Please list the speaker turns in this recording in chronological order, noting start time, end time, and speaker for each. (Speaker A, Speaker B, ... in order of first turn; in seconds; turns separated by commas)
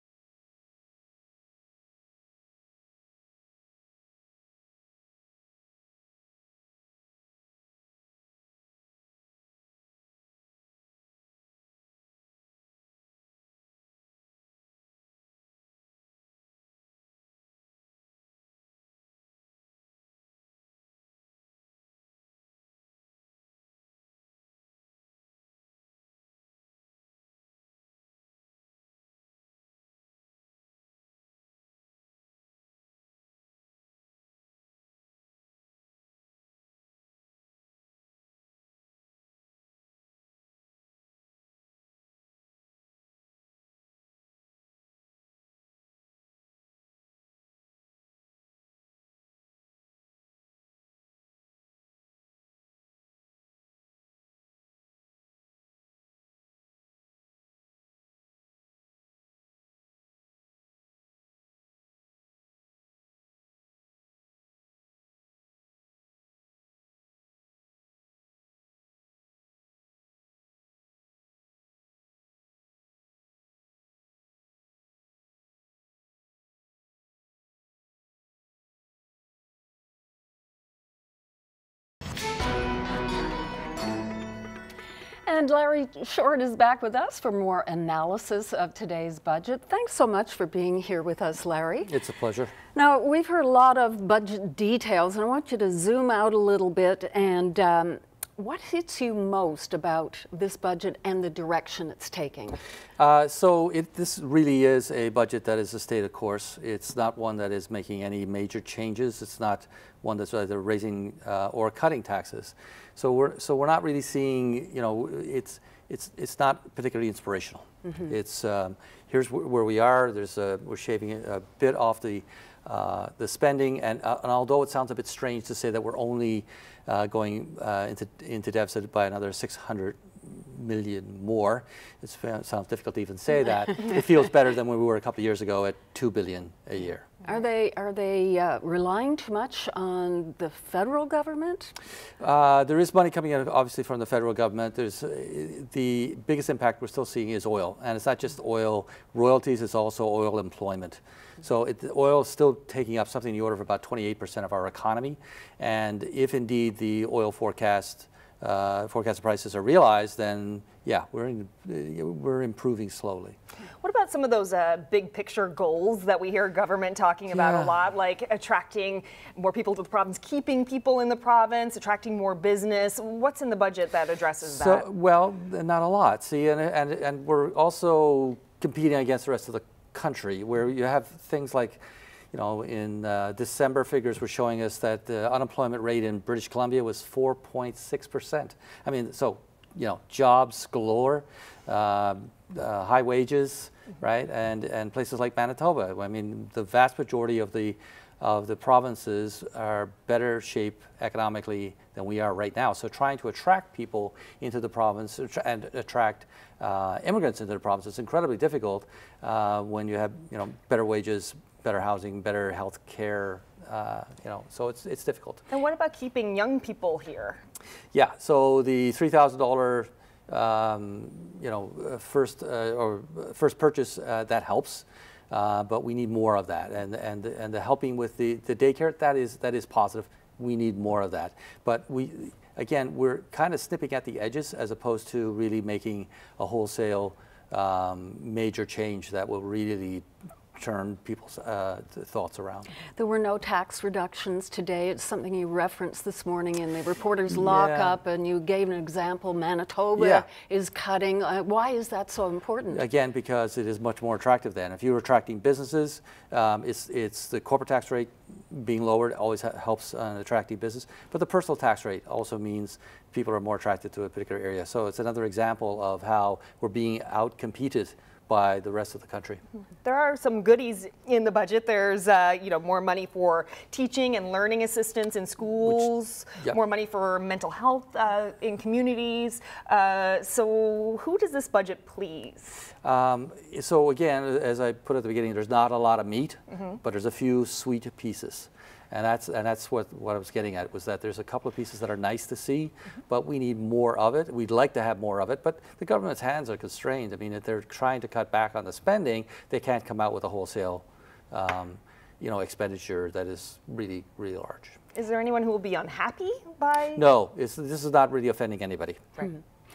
Speaker A: 85.3-91.9, Speaker B: 91.9-92.5, Speaker A: 92.7-102.6, Speaker B: 103.0-137.1, Speaker A: 137.2-141.7, Speaker B: 142.2-163.4, Speaker C: 163.8-174.8, Speaker B: 167.3-167.7, Speaker B: 174.4-181.8, Speaker B: 182.3-215.4, Speaker C: 215.5-217.4, Speaker B: 217.9-242.7, Speaker A: 242.9-252.8, Speaker B: 247.3-248.0, Speaker B: 249.9-250.3, Speaker B: 252.7-269.4, Speaker C: 269.8-282.7, Speaker B: 282.8-304.8, Speaker C: 286.5-286.8, Speaker C: 304.9-307.0, Speaker B: 306.9-309.1